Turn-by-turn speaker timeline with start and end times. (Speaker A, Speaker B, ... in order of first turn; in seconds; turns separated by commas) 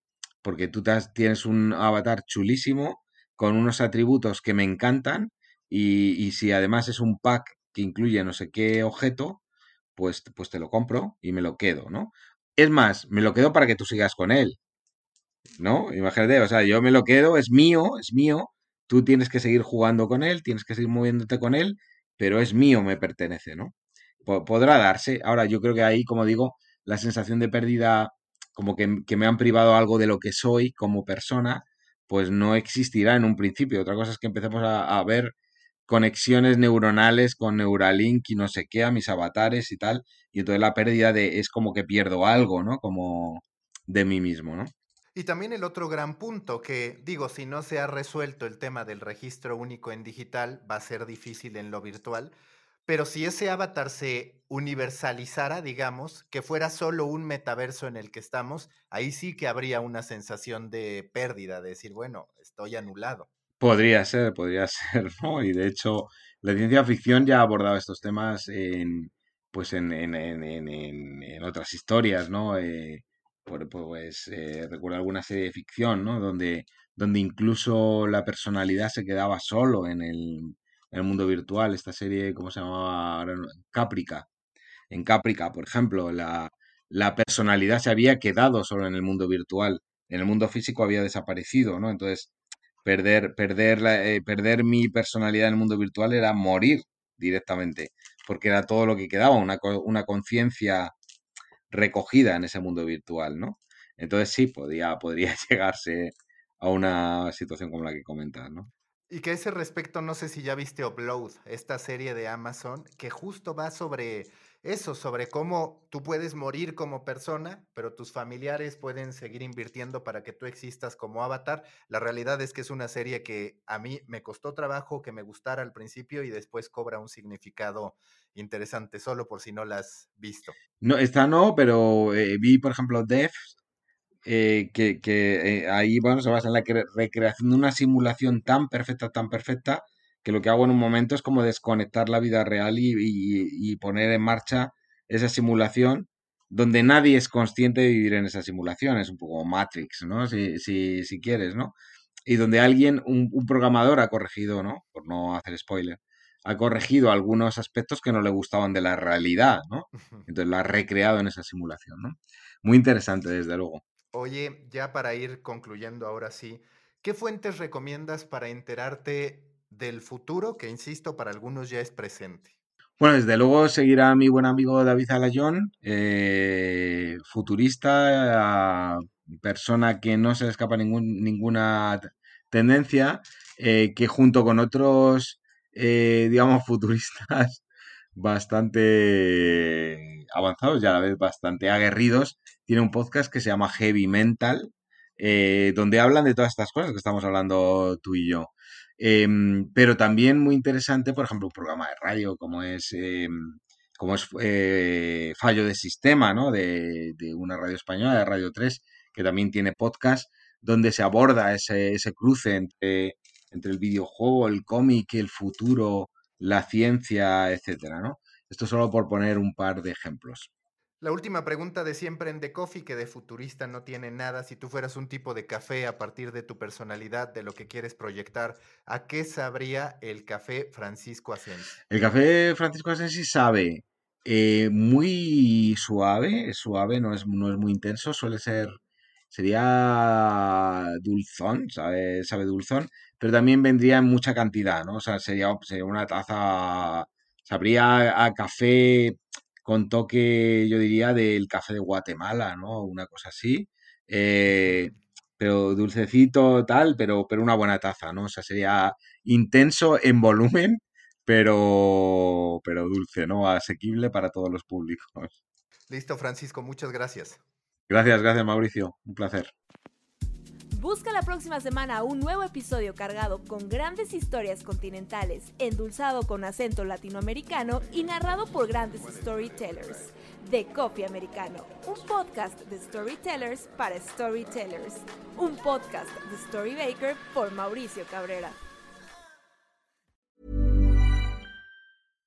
Speaker A: 0.4-9.4, Speaker A: 9.9-14.6, Speaker A: 15.6-23.7, Speaker A: 24.2-35.3, Speaker A: 35.9-44.7, Speaker B: 45.1-52.3, Speaker B: 52.9-63.3, Speaker A: 63.6-84.3, Speaker A: 84.9-92.3, Speaker A: 92.8-100.9, Speaker A: 101.7-108.7, Speaker B: 109.1-130.6, Speaker A: 130.8-133.6, Speaker A: 134.2-151.7, Speaker A: 152.2-163.8, Speaker B: 164.1-172.5, Speaker A: 173.0-187.6, Speaker A: 188.2-220.5, Speaker B: 221.0-231.7, Speaker A: 231.9-238.8, Speaker A: 239.3-265.4, Speaker B: 265.9-267.4, Speaker A: 267.9-269.5, Speaker C: 270.7-288.6